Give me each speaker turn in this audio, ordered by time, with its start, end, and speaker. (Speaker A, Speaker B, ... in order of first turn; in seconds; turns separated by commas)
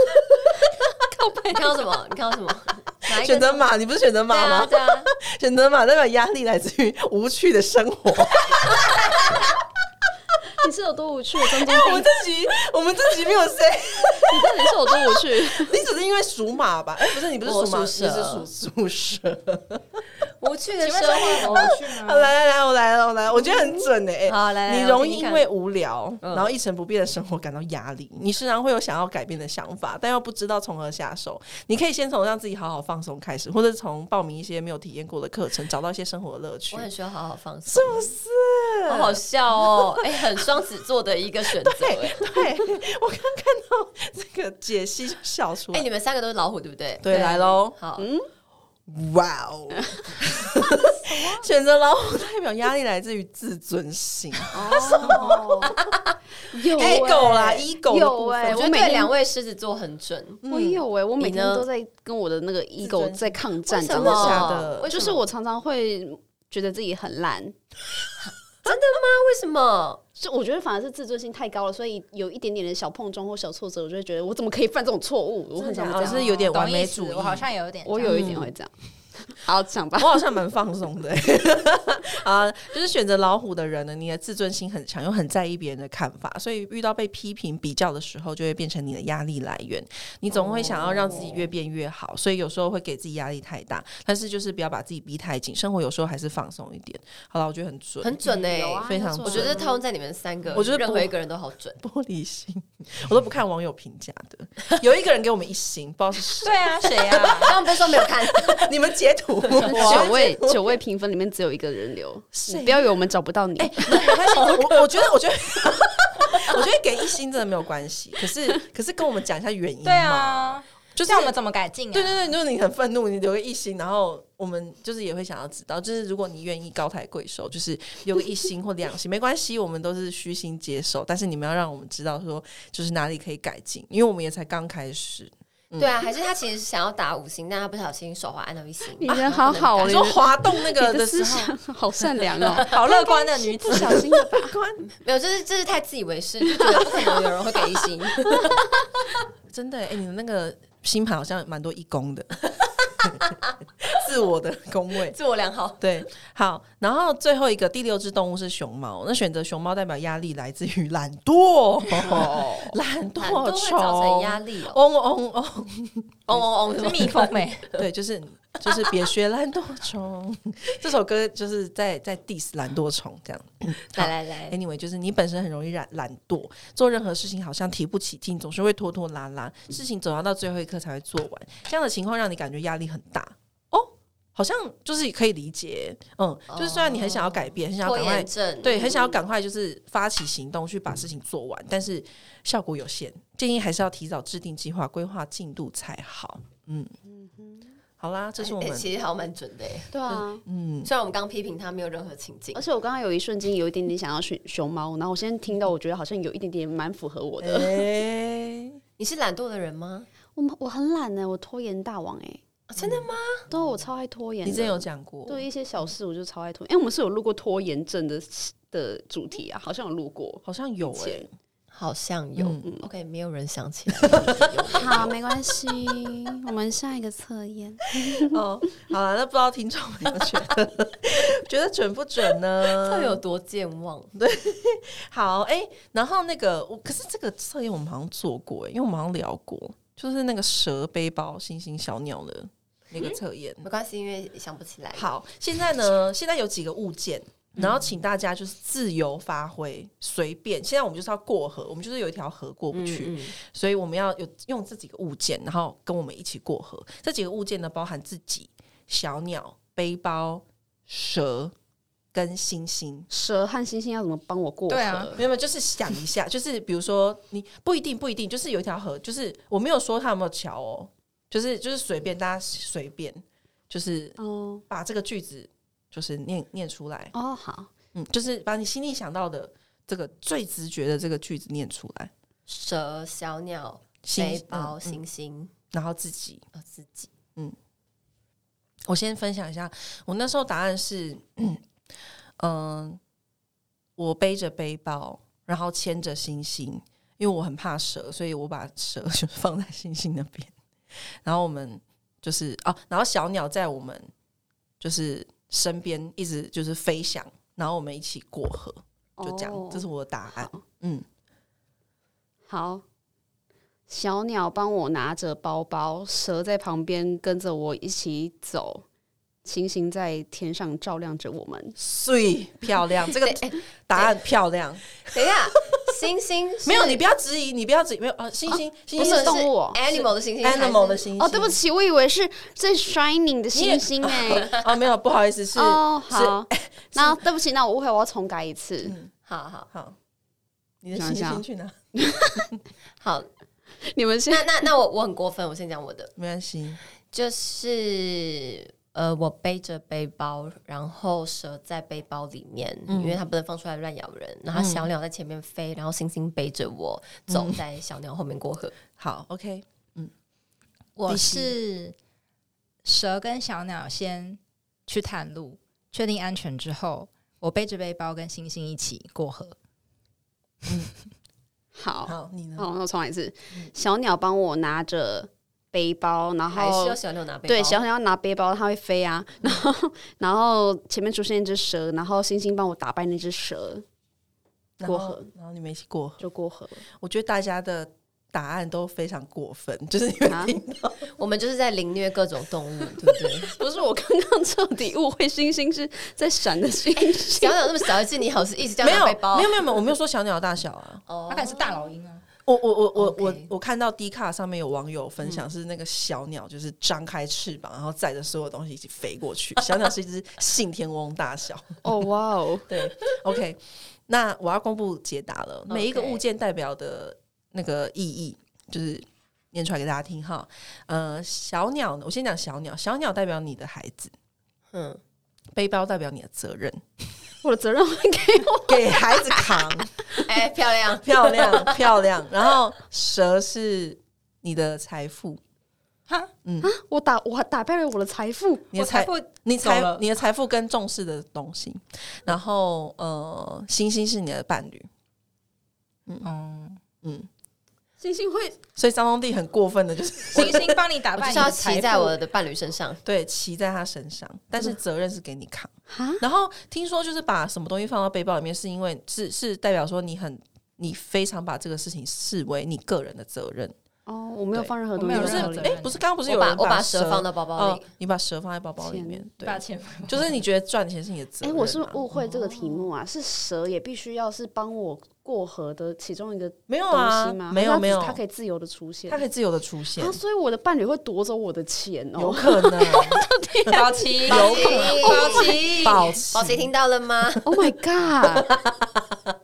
Speaker A: 1.1-1.7, Speaker B: 1.5-3.6, Speaker C: 3.1-9.5, Speaker B: 4.3-5.1, Speaker A: 10.6-12.1, Speaker C: 11.5-20.1, Speaker A: 14.3-15.8, Speaker B: 17.4-18.5, Speaker B: 20.4-21.7, Speaker D: 20.8-22.3, Speaker C: 21.2-36.9, Speaker A: 21.4-21.6, Speaker A: 23.3-23.9, Speaker B: 24.3-25.5, Speaker B: 26.2-26.5, Speaker B: 36.7-38.1, Speaker C: 37.7-40.3, Speaker B: 38.9-42.2, Speaker C: 41.5-45.9, Speaker B: 45.7-48.1, Speaker C: 47.0-47.8, Speaker A: 48.0-48.3, Speaker C: 48.9-55.9, Speaker A: 49.7-50.1, Speaker A: 51.0-51.4, Speaker A: 54.5-55.8, Speaker B: 54.5-56.1, Speaker A: 56.4-59.1, Speaker C: 56.6-58.7, Speaker B: 58.5-60.4, Speaker C: 60.4-60.9, Speaker A: 60.5-67.6, Speaker B: 61.2-61.7, Speaker C: 62.8-64.9, Speaker B: 63.7-65.2, Speaker B: 68.2-70.0, Speaker A: 70.2-76.5, Speaker C: 75.6-77.5, Speaker D: 76.0-78.5, Speaker A: 77.9-80.4, Speaker C: 78.0-78.5, Speaker C: 80.0-98.2, Speaker B: 90.3-91.5, Speaker B: 98.0-101.8, Speaker A: 98.3-99.8, Speaker C: 98.8-99.6, Speaker C: 100.5-101.1, Speaker C: 101.8-110.8, Speaker D: 106.4-107.5, Speaker B: 107.4-108.7, Speaker B: 109.5-110.1, Speaker A: 109.7-114.1, Speaker C: 112.3-113.0, Speaker C: 113.6-121.3, Speaker B: 113.9-114.8, Speaker D: 119.8-122.3, Speaker C: 121.9-135.9, Speaker B: 135.8-140.0, Speaker A: 139.0-144.6, Speaker C: 139.8-141.5, Speaker D: 142.6-144.0, Speaker C: 143.7-144.8, Speaker B: 144.8-148.6, Speaker A: 146.5-147.2, Speaker C: 149.5-152.4, Speaker C: 153.0-155.2, Speaker B: 153.1-153.5, Speaker B: 155.0-155.8, Speaker C: 155.8-166.5, Speaker A: 162.0-162.8, Speaker B: 163.2-164.8, Speaker B: 166.3-167.8, Speaker D: 166.8-167.7, Speaker C: 167.7-196.9, Speaker B: 168.7-169.0, Speaker B: 173.8-174.6, Speaker B: 186.5-189.2, Speaker A: 197.1-197.7, Speaker C: 198.0-198.9, Speaker B: 198.4-200.3, Speaker A: 199.9-200.4, Speaker C: 200.4-200.9, Speaker B: 200.8-202.7, Speaker A: 202.6-207.9, Speaker C: 207.4-208.8, Speaker B: 209.0-210.1, Speaker A: 210.4-212.4, Speaker B: 212.7-213.5, Speaker C: 212.8-213.1, Speaker A: 213.5-221.3, Speaker C: 214.4-215.5, Speaker C: 220.4-221.3, Speaker B: 221.7-225.2, Speaker C: 222.4-222.7, Speaker A: 224.7-228.4, Speaker C: 228.1-233.2, Speaker B: 232.6-234.1, Speaker C: 234.2-243.7, Speaker B: 243.0-245.1, Speaker C: 244.9-261.6, Speaker B: 252.7-253.4, Speaker C: 262.1-263.1, Speaker A: 263.1-265.2, Speaker D: 264.7-265.2, Speaker C: 265.1-274.2, Speaker A: 274.2-274.6, Speaker C: 274.7-277.1, Speaker A: 277.1-277.7, Speaker C: 277.9-282.1, Speaker B: 282.5-285.5, Speaker C: 284.0-285.0, Speaker C: 285.7-286.5, Speaker B: 286.5-287.1, Speaker C: 288.9-291.6, Speaker C: 292.4-293.0, Speaker C: 294.0-304.1, Speaker C: 304.8-311.1, Speaker A: 309.2-309.9, Speaker A: 312.5-312.8, Speaker A: 313.9-318.9, Speaker A: 319.4-321.8, Speaker C: 321.8-325.7, Speaker B: 323.2-324.2, Speaker B: 325.1-327.0, Speaker C: 326.6-331.6, Speaker A: 328.5-329.8, Speaker B: 329.0-331.1, Speaker A: 331.2-334.6, Speaker C: 333.5-337.2, Speaker A: 335.6-339.0, Speaker C: 338.8-339.1, Speaker B: 339.3-339.7, Speaker C: 339.7-340.0, Speaker C: 340.8-341.8, Speaker A: 340.9-342.6, Speaker B: 343.0-343.3, Speaker A: 343.8-344.6, Speaker B: 344.3-346.1, Speaker C: 346.2-346.8, Speaker B: 347.1-358.8, Speaker C: 352.9-353.2, Speaker C: 354.5-354.9, Speaker C: 357.3-357.6, Speaker C: 359.0-360.1, Speaker D: 361.0-361.9, Speaker C: 361.1-361.6, Speaker D: 362.8-369.6, Speaker A: 371.8-383.9, Speaker C: 372.1-372.7, Speaker B: 376.5-377.8, Speaker C: 384.8-386.2, Speaker A: 384.9-385.3, Speaker A: 386.2-386.8, Speaker C: 387.0-391.1, Speaker A: 390.3-390.6, Speaker B: 391.1-393.5, Speaker A: 393.4-397.8, Speaker B: 397.0-399.8, Speaker C: 398.8-401.0, Speaker B: 401.1-401.8, Speaker D: 401.3-402.2, Speaker C: 402.5-411.8, Speaker B: 403.0-403.5, Speaker A: 411.8-412.9, Speaker C: 412.7-424.1, Speaker B: 415.7-416.2, Speaker B: 424.7-425.0, Speaker C: 425.5-426.8, Speaker A: 427.4-430.1, Speaker C: 428.7-429.9, Speaker B: 430.2-431.9, Speaker C: 431.0-435.4, Speaker C: 436.4-436.7, Speaker A: 436.6-438.7, Speaker C: 438.7-444.9, Speaker D: 438.8-440.0, Speaker D: 446.2-446.8, Speaker C: 447.0-447.3, Speaker A: 448.0-448.6, Speaker C: 448.8-450.8, Speaker D: 450.3-452.1, Speaker B: 451.1-453.0, Speaker C: 453.1-463.8, Speaker A: 455.9-456.2, Speaker A: 464.1-465.8, Speaker C: 464.5-472.8, Speaker D: 465.0-466.0, Speaker B: 466.3-467.9, Speaker A: 468.8-469.2, Speaker D: 469.4-470.4, Speaker A: 471.4-479.2, Speaker C: 476.7-478.2, Speaker C: 479.1-480.2, Speaker A: 480.0-485.5, Speaker C: 482.2-483.3, Speaker D: 483.7-486.2, Speaker C: 484.2-486.7, Speaker B: 484.3-487.5, Speaker A: 487.4-488.6